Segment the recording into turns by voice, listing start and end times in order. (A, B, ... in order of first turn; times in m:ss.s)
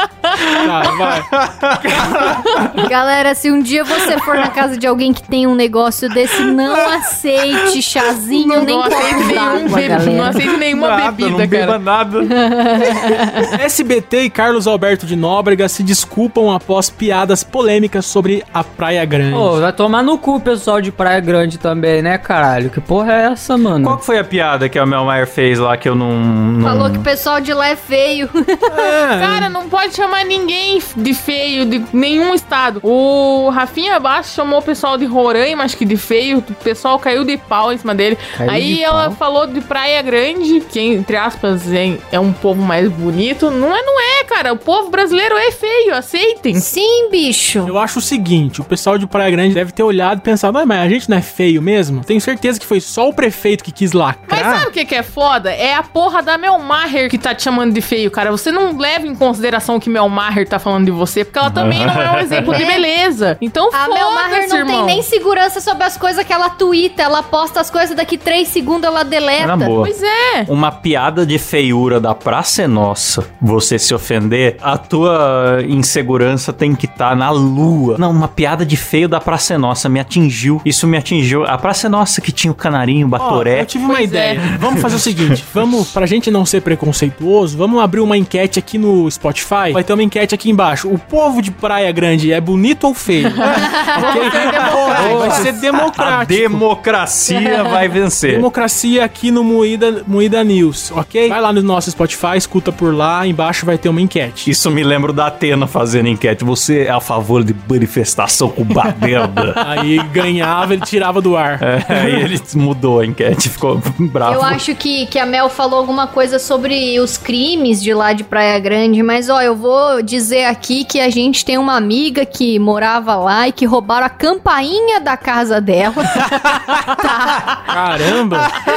0:00.6-0:01.3 A
0:00.9-0:02.4 B
0:01.9-0:02.4 A
0:02.8-0:10.4 C
0:08.3-0:11.8 D
0:10.5-0:12.4 B
0:12.2-0:13.5 C
0:13.5-0:19.6 A
0:19.3-0:24.0 E
0:23.8-0:27.1 B
0:26.6-0:28.9 C
0:28.7-0:29.5 A
0:29.2-0:46.7 D
0:38.4-0:39.2 E
0:46.6-0:47.8 C
0:47.6-0:54.7 A
0:54.3-1:05.1 D
1:01.4-1:02.6 B
1:02.4-1:02.9 C
1:03.7-1:09.8 C
1:09.4-1:09.9 B
1:09.8-1:10.5 D
1:10.5-1:23.7 B
1:23.2-1:36.6 A
1:23.9-1:24.4 D
1:24.7-1:25.2 B
1:33.4-1:35.5 D
1:34.1-1:38.5 B
1:38.3-1:44.5 A
1:44.4-1:49.7 B
1:49.6-1:52.2 A
1:51.6-1:54.6 B
1:54.2-2:07.7 C
2:07.7-2:08.5 A